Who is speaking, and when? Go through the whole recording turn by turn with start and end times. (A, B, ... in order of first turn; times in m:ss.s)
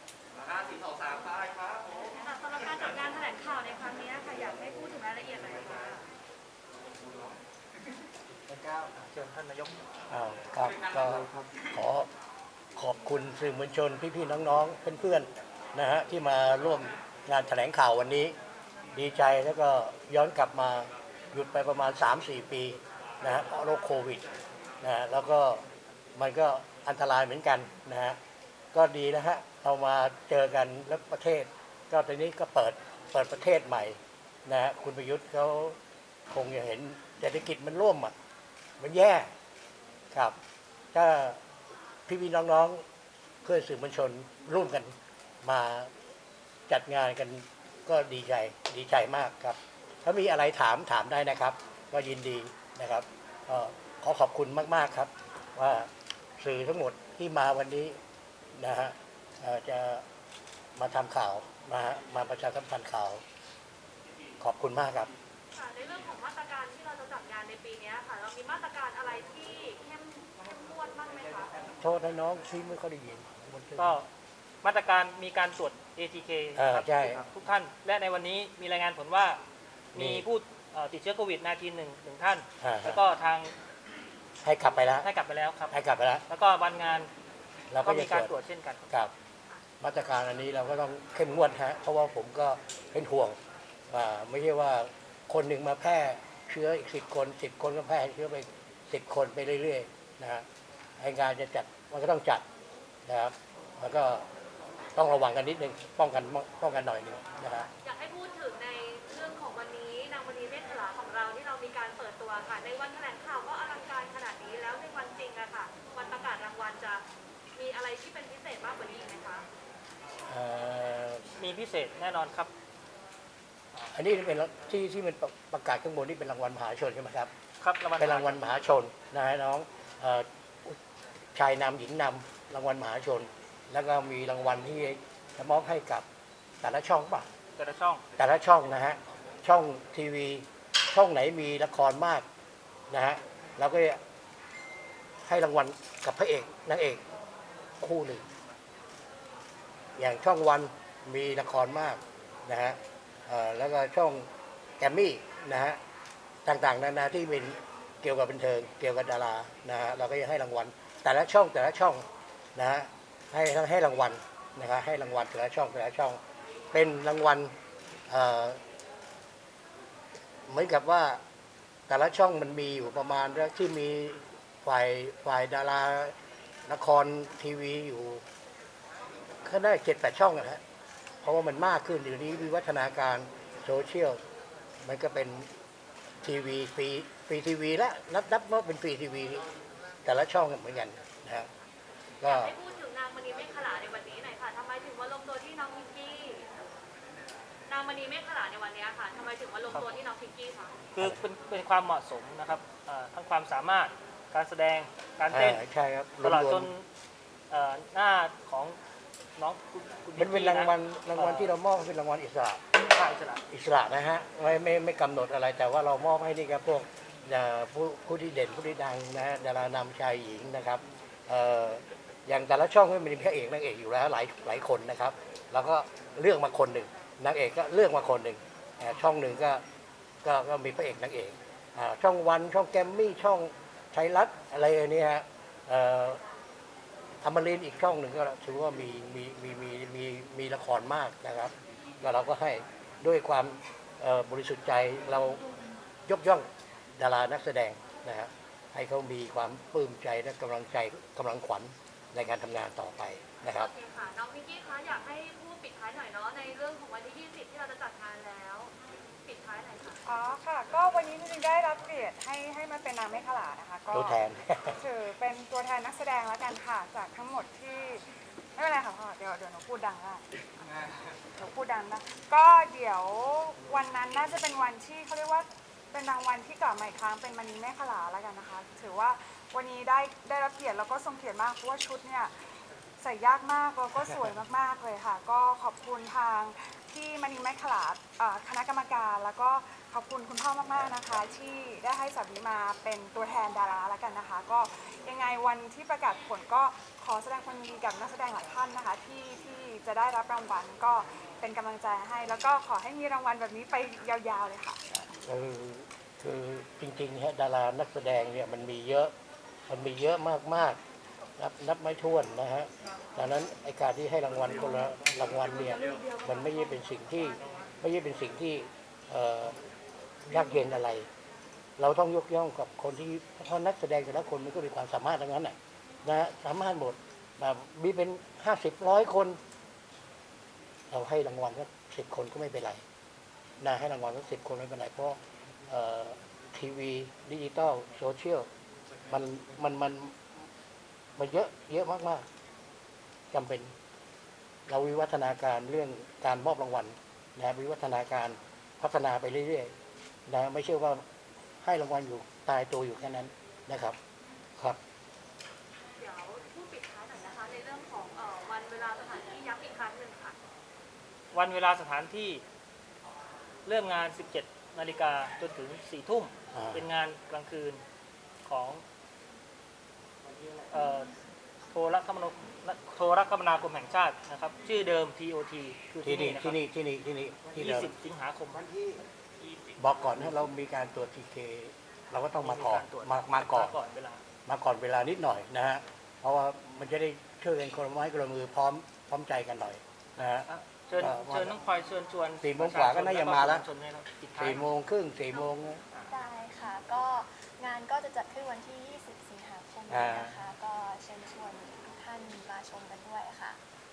0:00.6-0:01.2 A
0:02.2-0:06.0 A
0:09.0-0:09.7 B
0:10.1-0:12.1 C
0:12.8-0:18.4 C
0:18.9-0:24.2 C
0:24.8-0:25.6 C
0:26.2-0:28.2 C
0:28.7-0:35.8 C
0:36.3-0:38.1 C
0:38.8-0:39.3 C
0:40.9-0:41.4 C
0:42.1-0:42.8 C
0:43.4-0:45.9 C
0:46.7-0:58.0 C
0:58.6-1:00.0 C
1:00.8-1:03.2 C
1:04.4-1:05.1 C
1:05.5-1:11.5 A
1:11.8-1:14.0 C
1:13.8-1:14.1 B
1:14.6-1:19.4 B
1:16.6-1:17.2 C
1:19.9-1:20.3 C
1:19.9-1:23.6 B
1:22.6-1:23.0 C
1:24.4-1:25.1 C
1:25.0-1:27.1 B
1:25.7-1:26.2 C
1:27.7-1:28.4 C
1:27.8-1:28.9 B
1:29.8-1:33.4 C
1:33.9-1:40.4 C
1:41.0-1:42.4 C
1:43.1-1:44.3 C
1:45.0-1:47.7 C
1:47.8-1:57.0 A
1:57.6-1:59.5 A
2:00.3-2:01.3 C
2:01.4-2:02.5 B
2:03.9-2:07.3 C
2:07.6-2:08.4 B
2:08.0-2:10.8 C
2:11.3-2:16.0 C
2:16.6-2:17.3 C
2:17.6-2:18.0 B
2:18.2-2:22.2 C
2:22.9-2:24.0 C
2:25.3-2:27.0 C
2:27.8-2:28.2 C
2:30.0-2:34.3 C
2:34.8-2:35.8 C
2:36.4-2:46.2 C
2:46.7-2:47.5 C
2:48.1-2:48.6 C
2:50.5-2:51.2 C
2:51.9-2:56.1 C
2:56.7-2:58.2 C
2:59.4-3:00.6 C
3:01.2-3:04.2 C
3:04.8-3:05.5 C
3:06.2-3:09.4 C
3:10.0-3:11.5 C
3:12.2-3:12.6 C
3:12.2-3:16.4 A
3:17.7-3:20.8 A
3:21.0-3:25.6 B
3:21.0-3:21.2 C
3:25.3-3:26.7 C
3:26.2-3:26.9 B
3:27.5-3:28.8 B
3:29.4-3:31.5 B
3:30.2-3:32.6 C
3:32.9-3:33.4 B
3:33.5-3:49.6 C
3:50.2-3:56.2 C
3:57.2-4:05.4 C
4:06.1-4:13.7 C
4:13.5-4:18.7 A
4:19.2-4:20.0 A
4:20.0-4:24.2 D
4:23.9-4:24.8 C
4:24.8-4:30.3 D
4:31.3-5:04.9 D
4:50.7-4:51.2 C
5:05.2-5:09.1 C
5:09.7-5:10.8 C
5:11.4-5:19.6 C
5:20.3-5:21.1 C
5:21.8-5:29.4 C
5:30.9-5:32.8 C
5:33.6-5:35.2 C
5:35.7-5:38.5 C
5:39.1-5:40.2 C
5:41.2-5:42.3 C
5:43.3-5:43.7 C
5:44.7-5:49.7 C
5:50.3-5:51.0 C
5:51.6-5:54.0 C
5:56.0-6:00.4 A
6:01.3-6:02.4 B
6:03.6-6:07.8 B
6:06.5-6:06.9 C
6:08.5-6:08.8 B
6:10.7-6:11.1 B
6:11.7-6:16.6 B
6:16.0-6:17.9 C
6:17.5-6:18.6 B
6:19.8-6:23.8 C
6:22.4-6:24.2 B
6:24.5-6:31.6 C
6:30.5-6:34.6 B
6:32.4-6:33.7 C
6:34.4-6:35.8 C
6:36.1-6:43.6 E
6:39.9-6:40.4 C